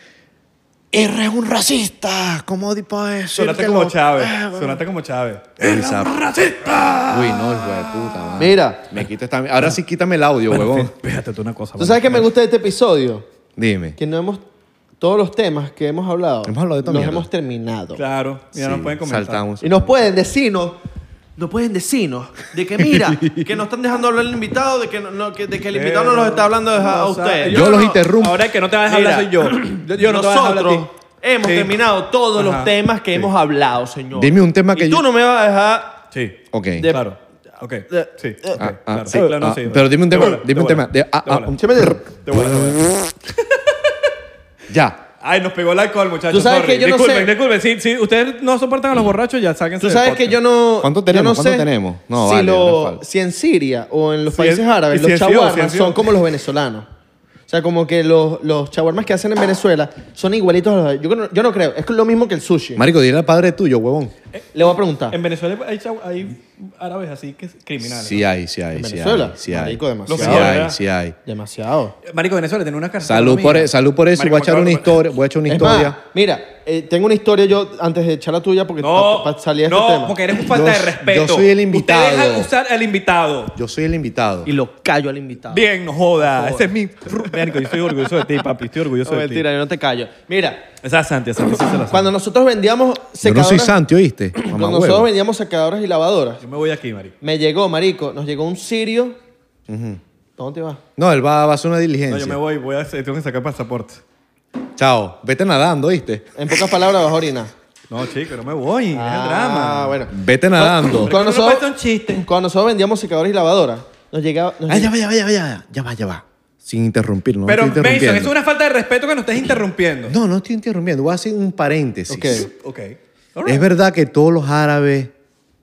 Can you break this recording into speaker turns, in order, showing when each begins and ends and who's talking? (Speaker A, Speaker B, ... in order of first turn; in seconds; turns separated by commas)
Speaker A: 0.9-4.8, Speaker B: 3.4-8.4, Speaker A: 5.6-6.2, Speaker A: 7.1-10.9, Speaker C: 8.4-8.9, Speaker B: 10.5-12.3, Speaker C: 11.8-13.3, Speaker A: 13.6-14.0, Speaker C: 14.0-14.4, Speaker C: 15.0-18.0, Speaker A: 16.4-17.3, Speaker B: 18.0-19.4, Speaker A: 18.6-19.9, Speaker C: 19.6-20.8, Speaker C: 21.4-28.0, Speaker A: 22.8-23.5, Speaker B: 25.7-30.9, Speaker A: 27.5-28.5, Speaker C: 28.9-36.0, Speaker B: 31.4-31.8, Speaker B: 32.4-33.3, Speaker A: 34.1-35.0, Speaker B: 36.1-41.6, Speaker A: 36.5-36.9, Speaker C: 36.8-37.1, Speaker C: 37.9-39.2, Speaker A: 38.6-43.0, Speaker C: 41.6-42.0, Speaker B: 42.2-43.9, Speaker A: 44.7-45.0, Speaker B: 45.2-50.4, Speaker C: 46.3-47.3, Speaker C: 49.8-56.9, Speaker A: 50.8-53.0, Speaker B: 54.3-56.0, Speaker C: 57.5-62.8, Speaker A: 62.8-64.1, Speaker C: 64.5-65.2, Speaker B: 65.1-68.2, Speaker A: 67.8-71.2, Speaker C: 68.8-70.6, Speaker B: 70.1-70.8, Speaker C: 71.3-72.0, Speaker B: 72.0-75.0, Speaker A: 73.0-76.0, Speaker C: 75.5-80.2, Speaker B: 78.8-83.6, Speaker A: 80.5-82.5, Speaker A: 83.5-84.5, Speaker C: 84.5-85.7, Speaker B: 85.5-89.5, Speaker C: 86.2-87.7, Speaker C: 89.0-90.7, Speaker B: 90.8-92.1, Speaker C: 91.9-93.8, Speaker A: 93.2-95.1, Speaker C: 94.3-96.4, Speaker B: 96.4-97.2, Speaker C: 97.2-99.2, Speaker A: 99.7-100.0, Speaker C: 100.4-100.8, Speaker A: 101.0-102.4, Speaker B: 102.1-104.0, Speaker A: 104.8-106.3, Speaker C: 106.4-107.5, Speaker B: 107.9-110.0, Speaker C: 108.9-114.9, Speaker A: 110.1-111.1, Speaker B: 111.0-112.2, Speaker A: 114.7-118.3, Speaker B: 117.5-120.2, Speaker A: 120.1-122.5, Speaker C: 122.1-122.5, Speaker B: 122.3-123.7, Speaker A: 123.5-125.1